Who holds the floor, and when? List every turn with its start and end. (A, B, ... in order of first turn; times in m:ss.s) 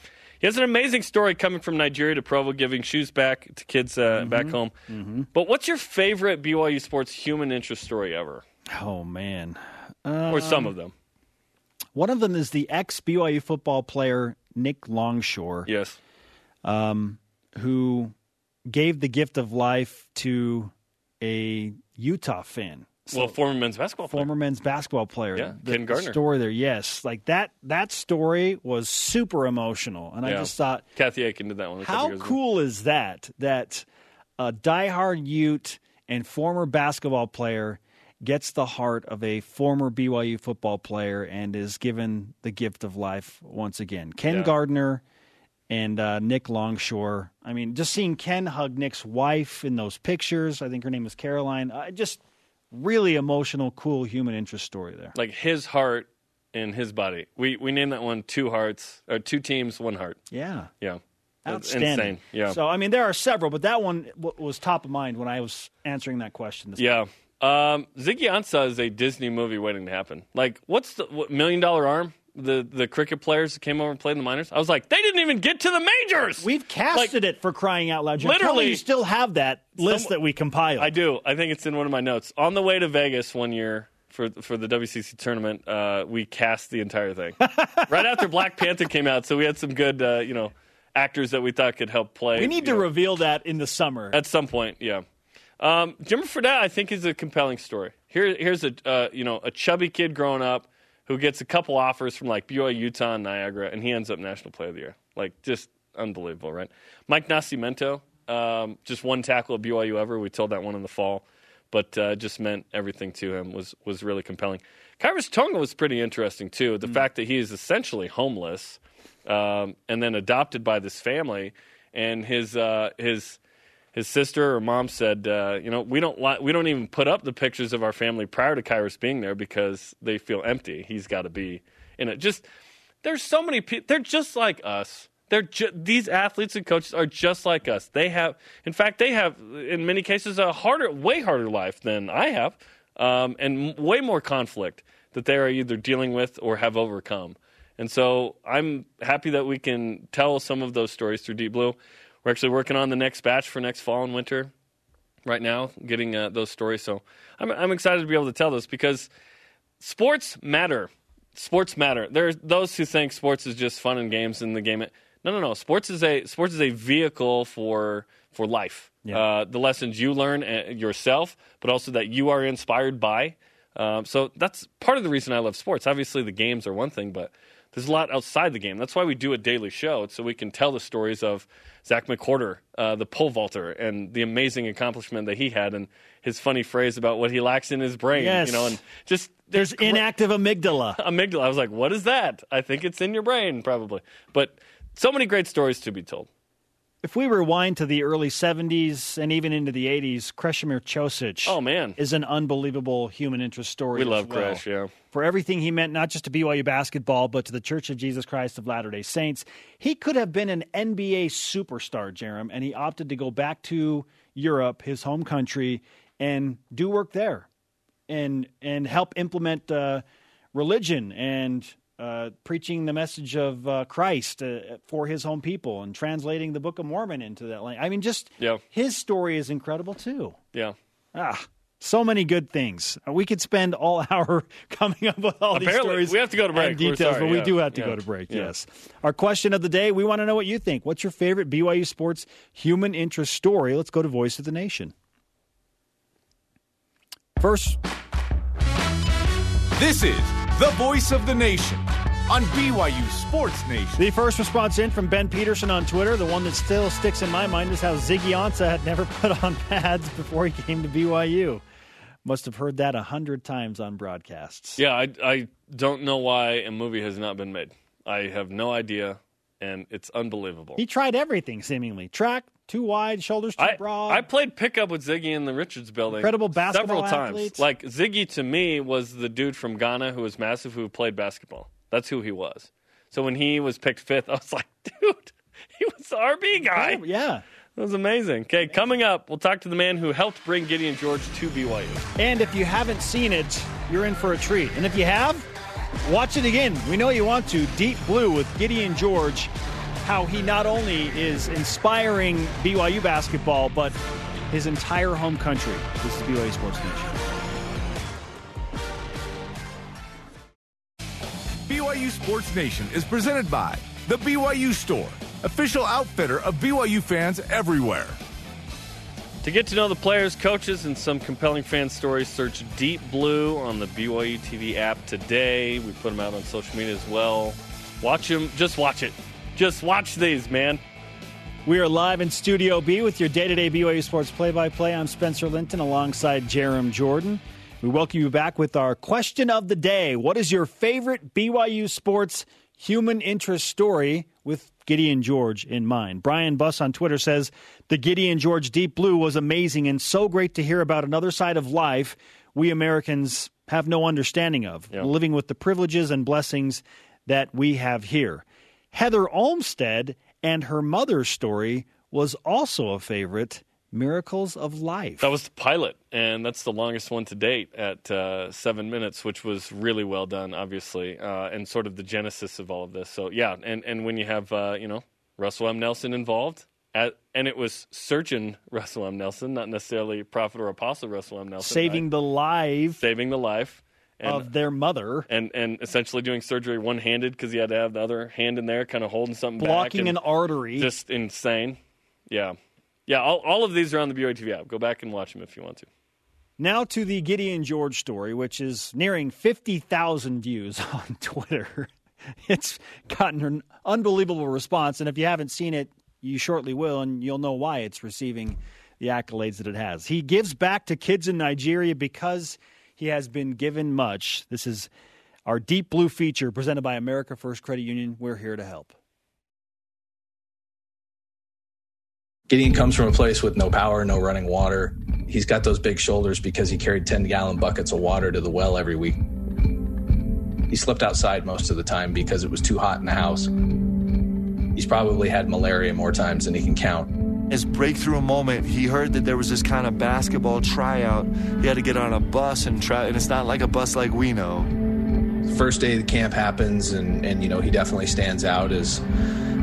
0:00.4-0:04.7 A
0:04.2-0:05.3 B
0:05.3-0:08.4 A
0:08.7-0:10.7 B
0:10.3-0:10.9 A
0:11.9-0:15.7 B
0:15.6-0:16.0 A
0:16.6-0:18.1 B
0:18.7-0:23.3 B
0:23.1-0:24.3 A
0:24.1-0:30.8 B
0:25.3-0:26.2 A
0:30.2-0:32.4 A
0:31.8-0:33.8 B
0:34.4-0:45.0 B
0:45.7-0:55.1 B
0:55.1-1:00.2 A
1:00.3-1:00.7 B
1:00.8-1:02.6 A
1:01.4-1:06.9 B
1:06.8-1:17.1 A
1:16.4-1:20.9 B
1:18.2-1:18.8 A
1:19.8-1:20.1 A
1:20.8-1:32.9 A
1:27.4-1:28.2 B
1:32.3-1:34.2 B
1:34.1-1:35.0 A
1:35.6-2:03.4 A
2:03.9-2:12.4 A
2:13.0-2:34.5 A
2:35.2-2:39.1 A
2:39.8-3:10.1 A
3:08.1-3:08.8 B
3:09.5-3:11.0 B
3:11.0-3:16.3 A
3:17.0-3:37.5 B
3:21.4-3:22.0 A
3:23.9-3:24.9 A
3:38.1-3:50.4 B
3:51.1-4:04.9 B
3:55.5-3:58.5 A
4:07.4-4:07.8 B
4:09.8-4:14.0 C
4:14.0-4:21.6 B
4:22.2-4:24.8 B
4:24.8-4:30.8 A
4:30.8-4:34.2 B
4:33.6-4:47.0 A
4:36.1-4:37.6 B
4:46.6-4:47.4 B
4:47.8-4:52.0 A
4:52.2-4:55.5 B
4:56.0-5:04.0 B
5:04.5-5:07.2 B
5:11.6-5:18.2 C
5:19.4-5:30.8 A
5:31.6-6:05.3 B
6:05.2-6:22.1 A
6:21.6-6:23.0 B
6:23.0-6:24.5 A
6:24.2-6:25.3 B
6:25.3-6:30.2 A
6:29.6-6:30.9 B
6:30.8-6:32.6 A
6:33.1-6:35.9 A
6:36.6-6:41.9 B
6:42.4-6:54.9 B
6:55.4-6:58.9 B
7:02.5-7:09.2 D
7:10.7-7:13.5 D
7:14.7-7:17.1 D
7:17.5-7:24.7 E
7:25.5-7:29.0 D